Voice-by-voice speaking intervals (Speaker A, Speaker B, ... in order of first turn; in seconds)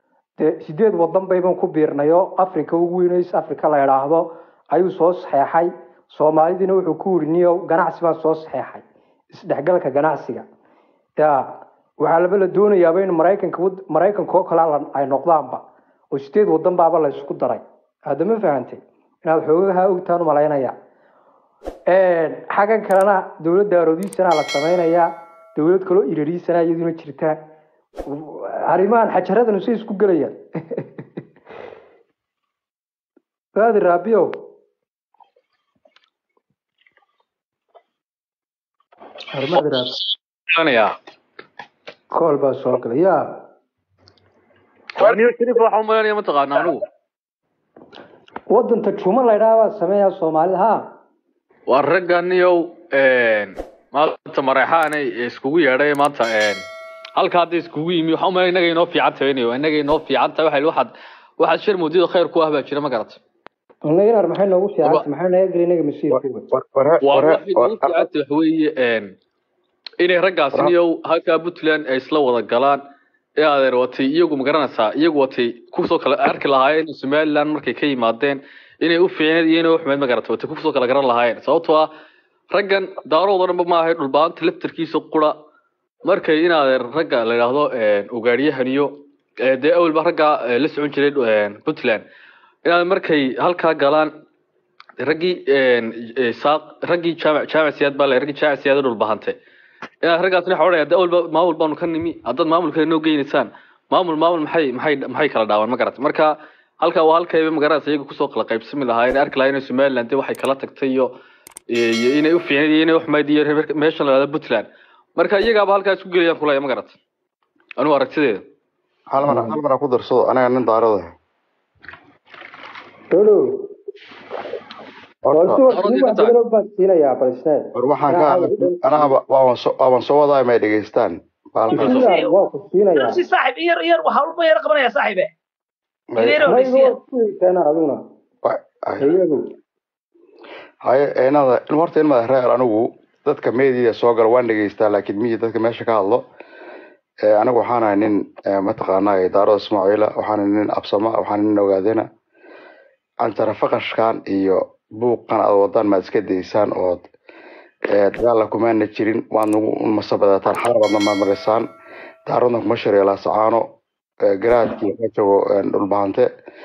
Speaker A: 0.4-10.4, 11.2-20.8, 21.9-27.4, 28.1-31.0, 33.5-34.3, 39.3-40.0, 42.1-43.2, 48.5-50.8, 63.9-66.5, 119.3-119.6, 123.1-123.4, 125.3-129.1, 131.7-133.2, 136.4-138.0, 139.0-139.4
Speaker B: 40.5-41.0, 45.0-46.9, 51.7-56.6, 57.2-63.2, 67.0-69.2, 70.0-72.8, 73.4-81.9, 82.5-85.3, 86.1-92.0, 92.7-94.1, 95.0-99.4, 100.0-111.1, 111.7-117.0, 117.8-118.4, 125.7-126.3
Speaker C: 66.1-68.1, 119.1-121.1, 125.3-125.6, 127.8-132.1, 136.1-136.4, 138.4-139.1, 140.9-146.2, 147.3-152.1, 153.2-157.0, 158.0-161.7, 162.3-163.6, 164.3-166.3
Speaker D: 131.8-132.3, 132.9-135.3, 136.2-136.9